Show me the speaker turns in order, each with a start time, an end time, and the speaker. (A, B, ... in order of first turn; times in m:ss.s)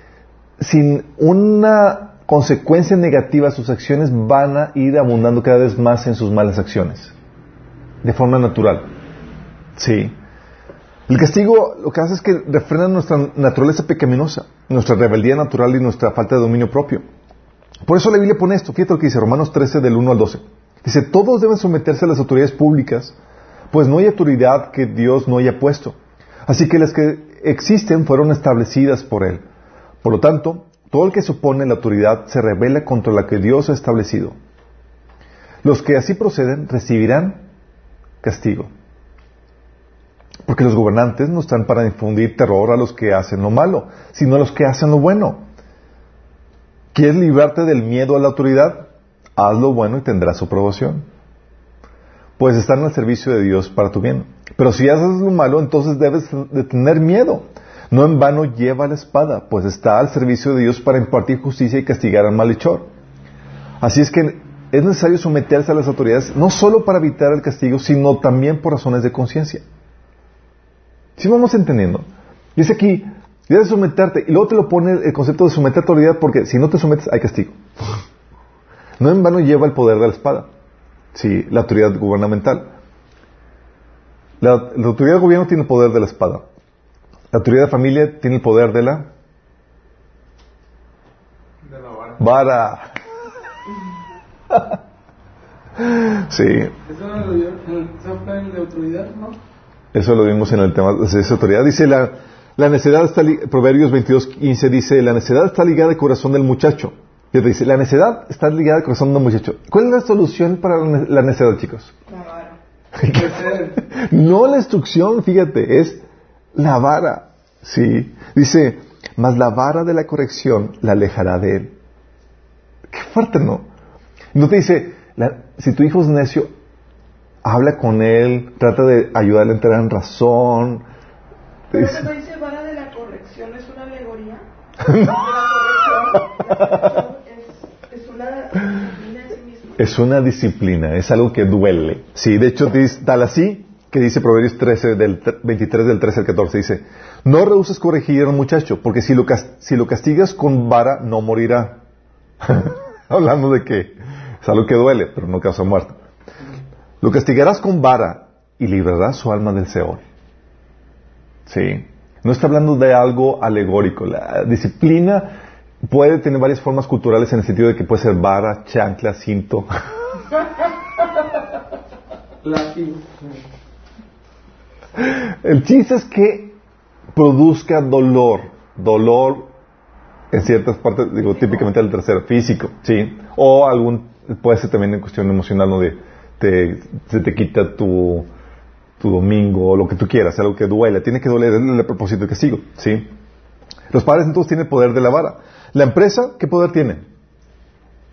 0:00.6-0:07.1 A
0:08.0-0:08.9 A
0:09.8-0:10.2 A
0:11.1-0:17.0 A
0:17.8-0:23.2 A
0:23.7-0:29.4 A
0:30.0-0:34.4 A
0:35.6-0:37.4 A
0:38.2-0:38.7 A
0:40.4-0:45.4 A
0:46.9-0:51.0 A
0:52.4-1:02.9 A
1:03.8-1:09.6 A
1:11.2-1:18.0 A
1:19.0-1:20.5 A
1:21.1-1:22.7 A
1:24.4-1:26.4 A
1:27.3-1:29.1 A
1:31.6-1:32.2 B
1:32.2-1:32.9 A
1:35.8-1:36.7 A
1:36.8-1:39.4 B
1:39.9-1:51.9 A
1:52.1-1:52.6 C
1:53.0-1:56.0 A
1:53.1-1:53.8 B
1:56.5-2:01.7 A
2:02.9-2:03.7 A
2:04.3-2:06.5 A
2:07.4-2:10.8 A
2:11.7-2:19.8 C
2:11.7-2:12.1 A
2:14.8-2:15.2 A
2:16.4-2:16.8 A
2:19.8-2:31.8 A
2:32.4-2:36.0 A
2:37.0-2:40.0 A
2:41.4-2:49.7 A
2:52.4-2:53.4 B
2:55.0-2:56.6 A
2:57.1-2:59.5 A
3:00.3-3:08.3 A
3:09.0-3:13.1 A
3:13.9-3:17.0 A